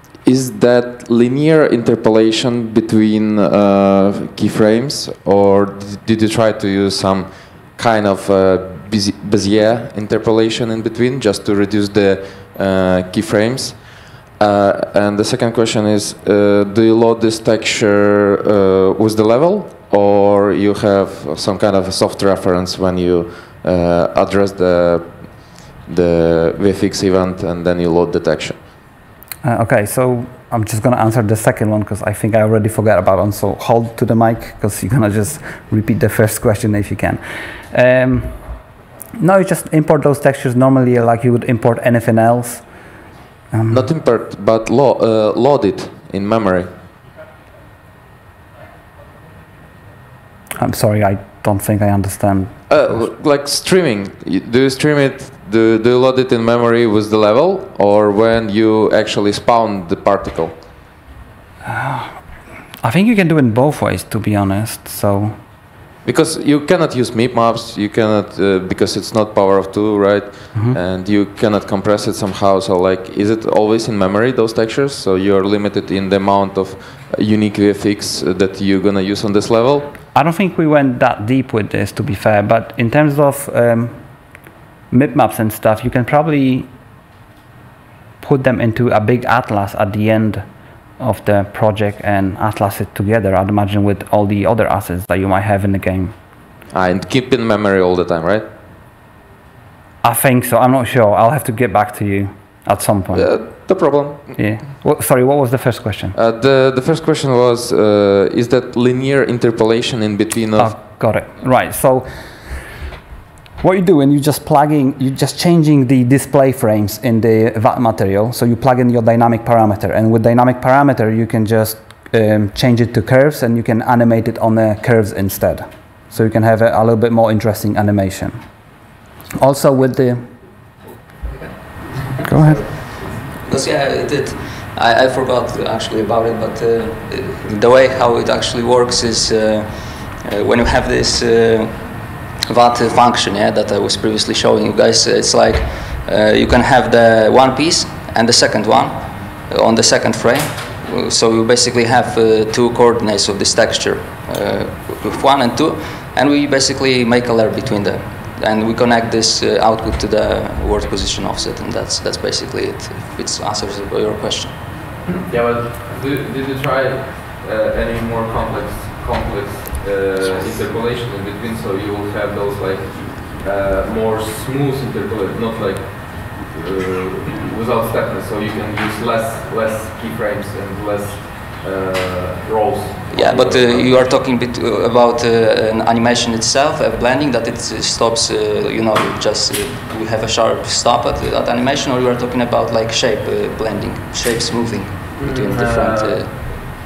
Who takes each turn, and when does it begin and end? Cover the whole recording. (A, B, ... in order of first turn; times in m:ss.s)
0:00.2-0:28.6 A
0:29.4-0:37.2 B
0:37.7-0:38.4 B
0:39.2-0:42.6 B
0:43.5-0:43.9 B
0:43.7-0:46.7 A
0:50.6-0:52.7 B
0:52.7-1:00.6 A
1:01.6-1:02.2 B
1:02.8-1:05.4 B
1:06.0-1:19.9 A
1:20.1-1:24.0 B
1:24.9-1:26.7 B
1:28.2-1:30.4 B
1:31.0-1:36.1 B
1:36.7-1:38.5 A
1:40.0-1:43.3 B
1:43.1-1:44.4 A
1:44.4-1:46.2 B
1:46.2-1:50.8 A
1:50.6-1:52.3 B
1:53.6-2:08.4 B
2:09.3-2:10.3 B
2:12.2-2:12.6 B
2:12.7-2:45.0 C
2:45.3-3:04.0 D
3:03.1-3:16.3 C
3:15.2-3:16.4 D